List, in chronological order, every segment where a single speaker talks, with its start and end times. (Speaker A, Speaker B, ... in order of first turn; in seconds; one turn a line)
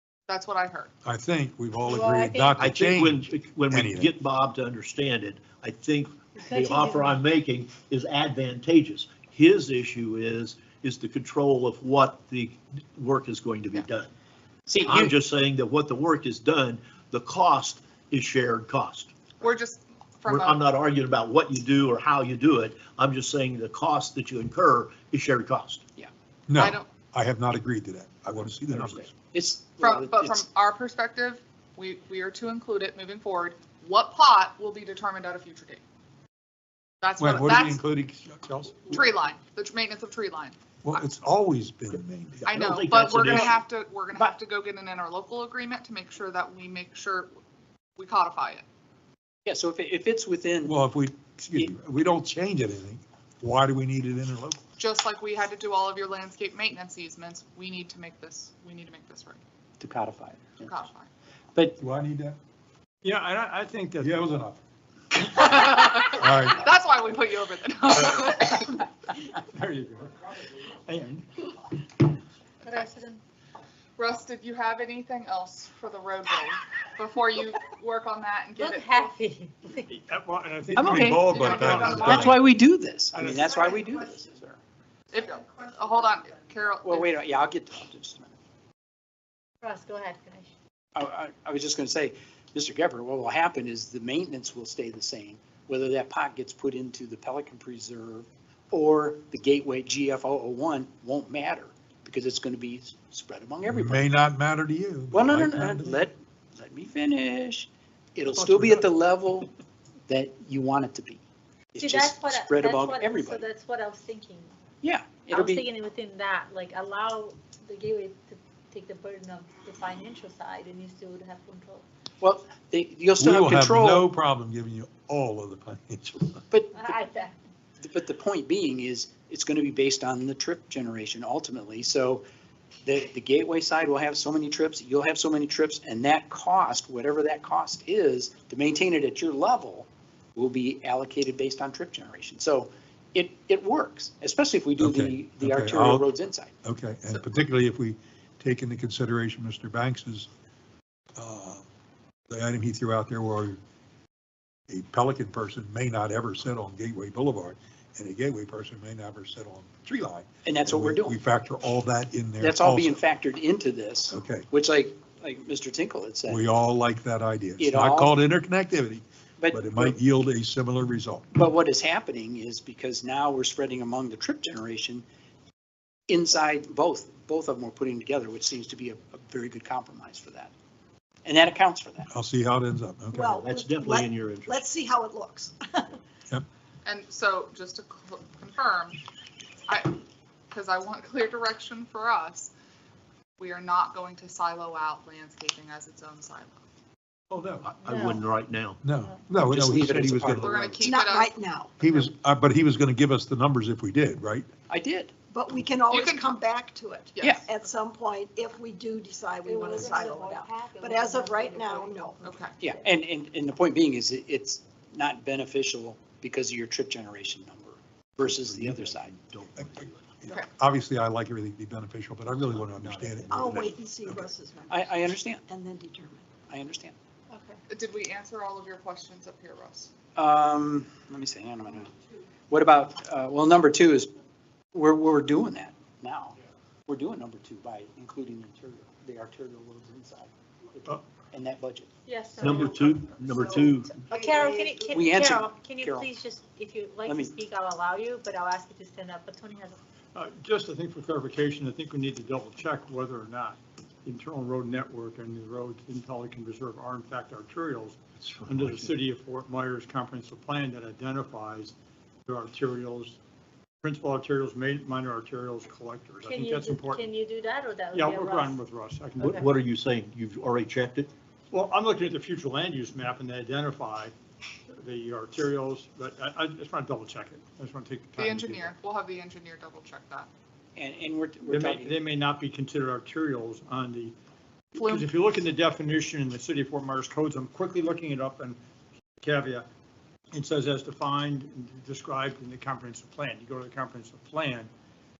Speaker A: 0.3-0.9
Speaker B: 1.1-4.1
Speaker C: 1.8-2.7
Speaker D: 2.6-14.1
Speaker C: 6.3-7.2
Speaker E: 14.7-15.2
Speaker D: 14.8-19.1
Speaker A: 19.4-20.6
Speaker D: 20.3-25.8
Speaker B: 26.5-29.1
Speaker A: 26.6-26.9
Speaker E: 29.3-30.5
Speaker A: 29.8-35.8
Speaker A: 37.0-37.8
Speaker B: 37.2-39.1
Speaker A: 38.9-40.6
Speaker B: 40.8-42.6
Speaker D: 42.5-43.6
Speaker A: 42.5-47.3
Speaker A: 48.0-48.6
Speaker E: 49.5-50.8
Speaker B: 50.6-54.6
Speaker A: 54.8-59.4
Speaker E: 59.8-60.8
Speaker A: 60.6-61.1
Speaker B: 61.8-62.4
Speaker F: 63.0-64.3
Speaker B: 64.0-64.6
Speaker A: 65.2-68.7
Speaker B: 66.2-66.7
Speaker F: 69.5-70.1
Speaker F: 70.8-71.3
Speaker C: 72.6-73.2
Speaker A: 74.0-79.1
Speaker C: 78.6-80.0
Speaker F: 79.9-82.1
Speaker B: 80.7-82.4
Speaker E: 80.8-81.3
Speaker A: 81.1-82.4
Speaker E: 81.9-84.6
Speaker F: 83.2-83.4
Speaker A: 85.1-87.1
Speaker E: 86.8-88.4
Speaker C: 89.6-90.5
Speaker E: 91.0-104.1
Speaker B: 103.7-106.1
Speaker E: 105.1-109.5
Speaker B: 108.3-108.8
Speaker E: 110.1-111.2
Speaker E: 111.7-113.5
Speaker C: 111.8-114.5
Speaker E: 114.8-115.7
Speaker C: 115.3-121.9
Speaker E: 122.2-124.1
Speaker B: 123.2-126.4
Speaker E: 126.5-126.9
Speaker C: 126.7-127.3
Speaker E: 127.8-132.2
Speaker E: 132.8-146.5
Speaker B: 144.8-146.1
Speaker B: 146.6-150.3
Speaker B: 151.2-151.7
Speaker B: 152.3-153.6
Speaker B: 154.7-163.0
Speaker E: 160.4-161.2
Speaker E: 162.4-166.4
Speaker B: 164.1-164.5
Speaker B: 166.3-171.3
Speaker E: 167.6-168.2
Speaker E: 169.4-170.0
Speaker E: 171.3-175.1
Speaker E: 176.1-180.5
Speaker E: 181.2-182.1
Speaker B: 182.1-183.3
Speaker G: 183.1-186.0
Speaker D: 183.2-184.5
Speaker A: 186.8-189.0
Speaker A: 189.7-192.5
Speaker A: 193.4-196.6
Speaker D: 197.3-198.8
Speaker C: 197.8-198.2
Speaker B: 198.8-200.8
Speaker E: 199.5-200.9
Speaker A: 200.4-201.3
Speaker G: 200.8-201.7
Speaker B: 201.8-204.5
Speaker E: 204.7-205.1
Speaker G: 205.3-212.4
Speaker A: 205.9-206.2
Speaker A: 207.2-207.5
Speaker C: 209.4-212.2
Speaker A: 212.2-212.6
Speaker E: 212.6-219.1
Speaker D: 218.2-220.2
Speaker B: 219.6-224.1
Speaker D: 222.5-223.6
Speaker G: 223.3-226.2
Speaker E: 224.7-225.4
Speaker E: 226.5-226.9
Speaker C: 227.3-227.6
Speaker A: 227.7-229.9
Speaker E: 230.2-231.9
Speaker E: 232.5-234.1
Speaker E: 234.7-236.4
Speaker E: 236.9-241.9
Speaker C: 242.1-249.8
Speaker D: 242.4-243.9
Speaker G: 244.1-244.9
Speaker E: 244.9-246.1
Speaker E: 247.1-247.3
Speaker F: 250.1-263.2
Speaker D: 258.2-258.9
Speaker F: 263.8-267.1
Speaker C: 266.2-268.6
Speaker F: 267.9-269.4
Speaker C: 269.2-269.5
Speaker D: 269.2-271.1
Speaker F: 271.5-274.1
Speaker F: 274.7-278.8
Speaker A: 278.2-280.3
Speaker E: 280.8-282.0
Speaker F: 281.5-284.2
Speaker F: 284.7-288.6
Speaker A: 284.8-285.1
Speaker F: 289.2-289.7
Speaker F: 290.3-294.7